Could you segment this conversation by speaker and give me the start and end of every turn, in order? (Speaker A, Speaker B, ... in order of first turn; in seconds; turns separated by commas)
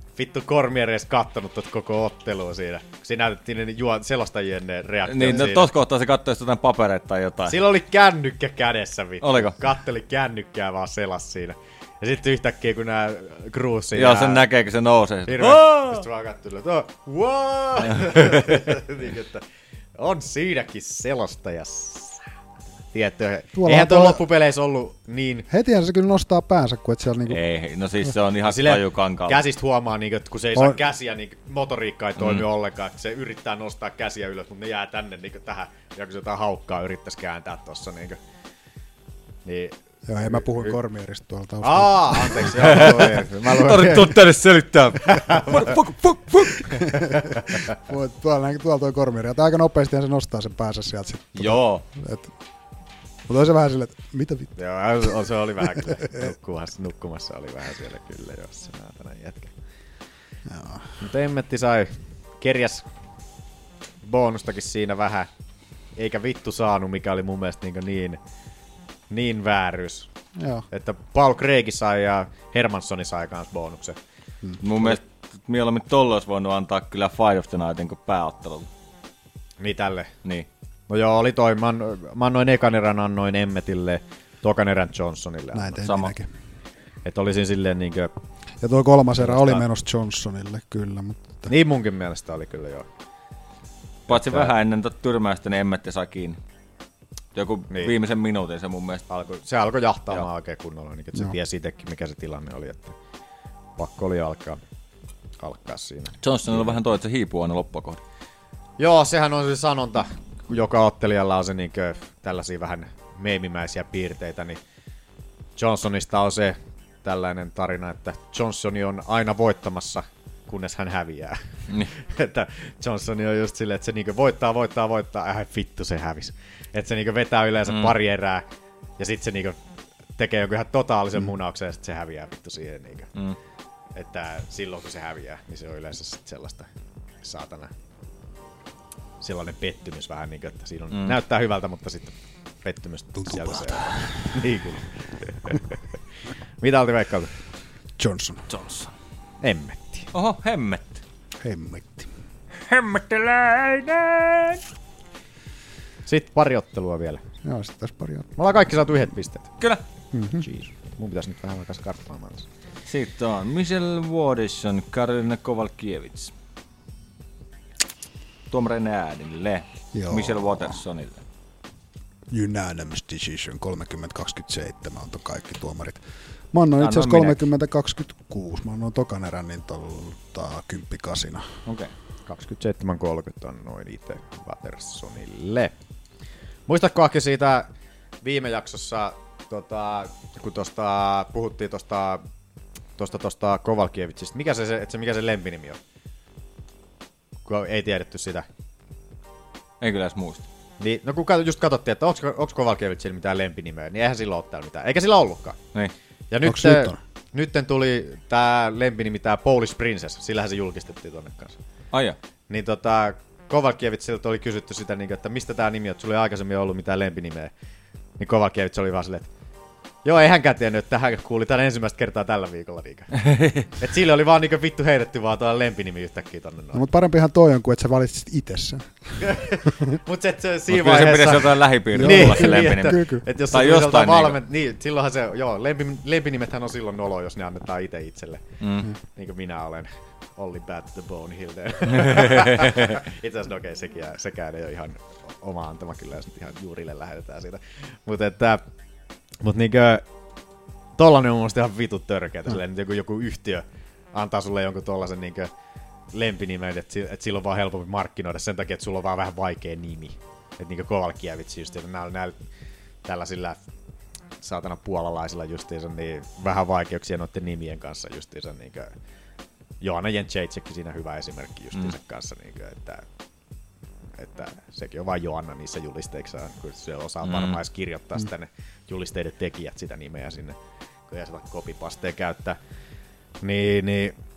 Speaker A: 0.1-5.7, Speaker B: 5.1-7.6, Speaker A: 7.5-14.4, Speaker B: 9.2-9.6, Speaker B: 13.9-16.0, Speaker A: 15.3-19.4, Speaker A: 20.0-22.2, Speaker A: 22.9-25.5, Speaker C: 23.5-24.2, Speaker C: 25.5-27.4, Speaker B: 27.3-29.4, Speaker A: 28.4-38.2, Speaker B: 32.2-32.4, Speaker A: 39.4-40.7, Speaker C: 40.0-42.9, Speaker A: 41.6-44.2, Speaker B: 42.6-46.8, Speaker A: 45.1-45.6, Speaker C: 46.7-52.3, Speaker B: 51.3-51.8, Speaker C: 53.3-54.5, Speaker A: 54.5-59.5, Speaker C: 55.9-56.2, Speaker C: 60.5-61.0, Speaker A: 61.0-62.9, Speaker A: 64.0-65.3, Speaker A: 66.0-68.2, Speaker A: 69.1-70.1, Speaker C: 70.3-70.6, Speaker A: 70.7-74.0, Speaker B: 74.6-78.7, Speaker A: 79.6-80.1, Speaker A: 80.9-85.8, Speaker C: 85.5-86.3, Speaker B: 85.8-86.1, Speaker A: 87.0-88.1, Speaker C: 88.6-91.5, Speaker A: 89.2-89.6, Speaker A: 91.5-92.9, Speaker A: 94.1-94.5, Speaker B: 94.1-96.4, Speaker B: 97.3-99.0, Speaker A: 99.1-102.9, Speaker A: 103.8-104.6, Speaker A: 105.4-106.8, Speaker B: 106.2-108.0, Speaker A: 108.8-114.6, Speaker A: 115.5-121.4, Speaker A: 121.9-128.4, Speaker B: 127.7-127.9, Speaker A: 129.0-129.6, Speaker A: 130.2-133.1, Speaker A: 133.9-136.7, Speaker A: 137.2-137.7, Speaker A: 139.2-145.6, Speaker C: 143.1-144.3, Speaker A: 146.6-147.3, Speaker C: 148.0-148.5, Speaker B: 148.5-148.9, Speaker A: 149.4-150.1, Speaker B: 150.1-151.0, Speaker C: 151.4-152.1, Speaker B: 152.7-154.6, Speaker A: 156.1-157.2, Speaker C: 157.4-158.3, Speaker A: 158.3-159.5, Speaker C: 160.1-160.4, Speaker A: 160.4-162.5, Speaker B: 162.9-166.3, Speaker B: 168.5-171.2, Speaker C: 169.9-170.8, Speaker C: 172.3-181.5, Speaker B: 176.8-177.4, Speaker B: 181.7-181.9, Speaker A: 182.2-185.7, Speaker A: 186.7-187.7, Speaker A: 188.2-192.2, Speaker A: 193.0-195.8, Speaker A: 197.4-198.5, Speaker B: 199.8-200.4, Speaker A: 200.8-205.6, Speaker A: 206.3-211.6, Speaker C: 206.4-207.0, Speaker B: 211.9-212.2, Speaker A: 212.5-217.5, Speaker A: 218.2-219.3, Speaker A: 220.0-223.1, Speaker B: 223.2-223.7, Speaker A: 223.8-226.8, Speaker C: 226.7-229.3, Speaker A: 229.2-238.4, Speaker B: 230.7-234.4, Speaker C: 231.9-233.2, Speaker B: 238.6-238.9, Speaker A: 239.1-248.6, Speaker B: 242.1-242.7, Speaker A: 249.4-250.0, Speaker A: 250.9-255.5, Speaker A: 256.1-262.4, Speaker A: 263.0-263.6, Speaker A: 264.4-268.9, Speaker A: 269.8-273.0, Speaker A: 274.2-280.6, Speaker B: 277.2-277.6, Speaker A: 281.1-282.6, Speaker A: 283.4-284.1